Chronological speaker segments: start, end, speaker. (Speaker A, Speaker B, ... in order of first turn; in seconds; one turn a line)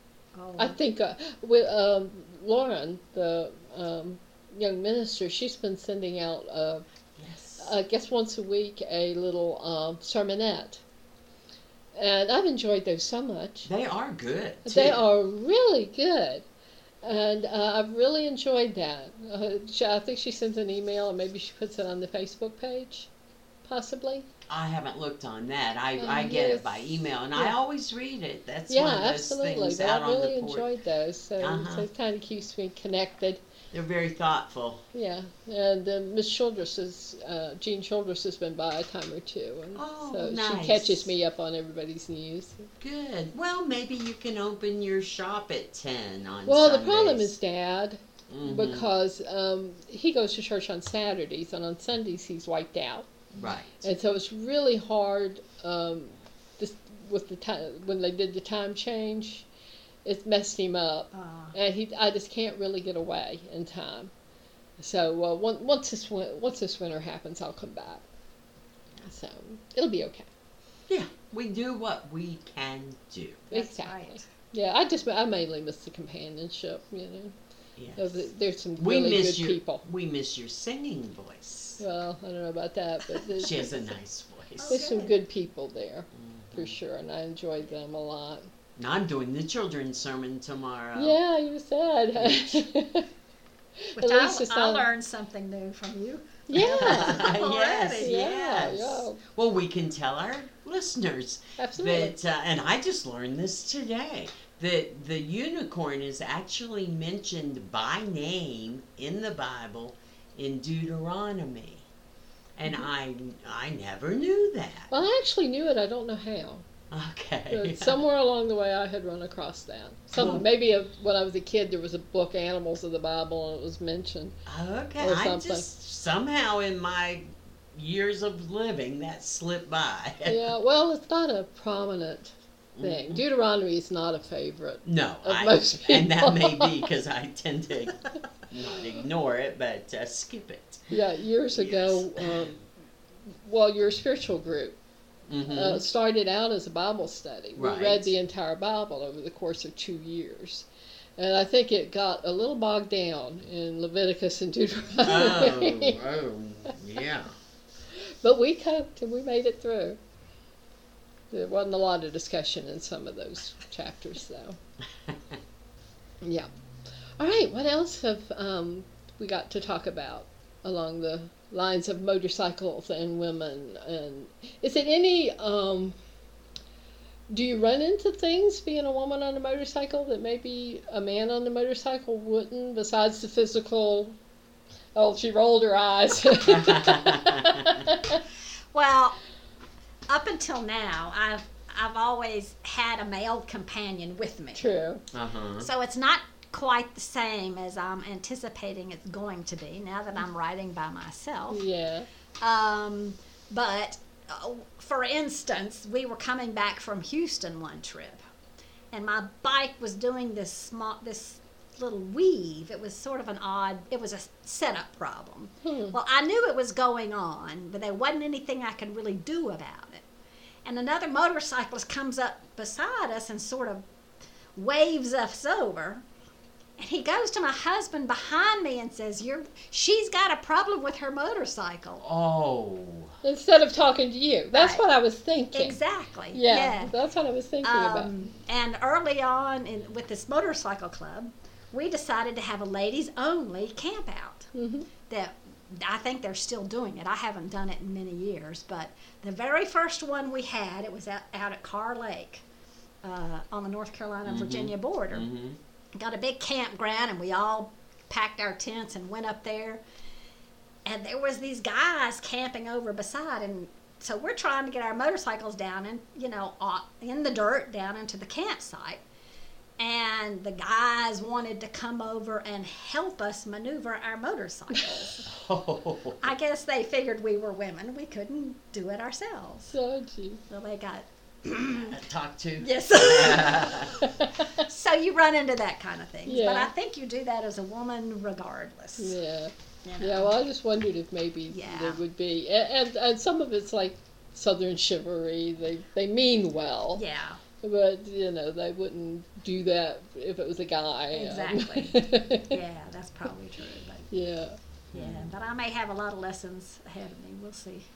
Speaker A: 0.3-0.8
Speaker B: 0.6-6.8
Speaker C: 7.2-7.7
Speaker B: 7.6-10.8
Speaker B: 11.9-13.7
Speaker C: 13.6-15.0
Speaker B: 14.6-16.4
Speaker B: 17.0-23.1
Speaker B: 23.6-24.3
Speaker C: 24.5-30.7
Speaker B: 26.0-27.5
Speaker B: 28.7-33.4
Speaker C: 31.4-31.9
Speaker C: 33.7-34.8
Speaker B: 34.9-42.7
Speaker C: 39.7-41.1
Speaker C: 42.8-47.3
Speaker B: 46.5-53.1
Speaker C: 48.3-48.9
Speaker C: 53.3-53.8
Speaker B: 53.8-59.5
Speaker B: 60.0-64.1
Speaker A: 61.1-61.5
Speaker B: 64.8-68.0
Speaker B: 69.0-70.3
Speaker C: 70.9-73.5
Speaker A: 73.5-74.2
Speaker B: 73.5-77.3
Speaker C: 77.8-81.8
Speaker B: 78.0-79.8
Speaker B: 81.8-83.9
Speaker C: 83.4-84.8
Speaker A: 84.6-85.2
Speaker B: 84.7-88.5
Speaker C: 86.1-86.8
Speaker C: 88.8-91.2
Speaker B: 91.0-93.1
Speaker C: 92.1-92.6
Speaker B: 93.8-94.8
Speaker A: 94.0-98.2
Speaker B: 96.5-97.3
Speaker C: 96.6-111.9
Speaker B: 98.0-99.2
Speaker B: 101.6-102.2
Speaker C: 112.6-114.9
Speaker B: 114.9-116.6
Speaker C: 116.9-118.0
Speaker B: 117.5-124.4
Speaker C: 120.1-120.5
Speaker C: 124.5-130.5
Speaker B: 125.0-125.7
Speaker B: 130.2-136.9
Speaker C: 132.8-133.2
Speaker C: 134.8-140.8
Speaker B: 140.9-142.6
Speaker C: 141.5-142.5
Speaker B: 143.3-144.8
Speaker C: 145.3-145.8
Speaker B: 145.5-156.0
Speaker C: 147.6-148.1
Speaker C: 155.0-157.3
Speaker B: 158.0-160.0
Speaker B: 161.3-164.6
Speaker C: 165.1-165.3
Speaker B: 166.2-166.5
Speaker B: 167.2-176.0
Speaker B: 177.3-184.2
Speaker B: 184.9-188.2
Speaker C: 186.4-187.9
Speaker A: 188.7-189.2
Speaker A: 190.1-194.7
Speaker B: 194.6-195.0
Speaker C: 195.1-195.7
Speaker A: 195.6-201.6
Speaker B: 201.5-202.1
Speaker A: 202.4-208.2
Speaker A: 208.9-220.0
Speaker B: 215.6-215.9
Speaker A: 220.6-223.8
Speaker A: 224.5-226.0
Speaker A: 226.8-232.0
Speaker C: 232.0-233.2
Speaker B: 233.2-235.8
Speaker A: 234.5-234.8
Speaker A: 235.5-236.9
Speaker B: 236.3-238.1
Speaker A: 237.6-244.5
Speaker B: 244.5-244.9
Speaker A: 245.1-252.4
Speaker A: 253.0-255.3
Speaker C: 254.2-255.6
Speaker A: 255.9-259.8
Speaker A: 260.8-269.0
Speaker A: 269.8-275.3
Speaker B: 274.8-275.1
Speaker C: 275.2-276.3
Speaker A: 276.2-279.7
Speaker B: 279.7-280.4
Speaker A: 280.5-282.0
Speaker C: 281.7-284.0
Speaker A: 282.6-289.2
Speaker B: 284.0-284.6
Speaker B: 286.2-286.7
Speaker B: 289.0-297.0
Speaker A: 289.8-290.4
Speaker A: 291.5-292.0
Speaker A: 296.9-297.4
Speaker B: 297.6-302.5
Speaker A: 301.1-304.1
Speaker B: 304.1-304.6
Speaker C: 304.9-305.3
Speaker A: 304.9-307.9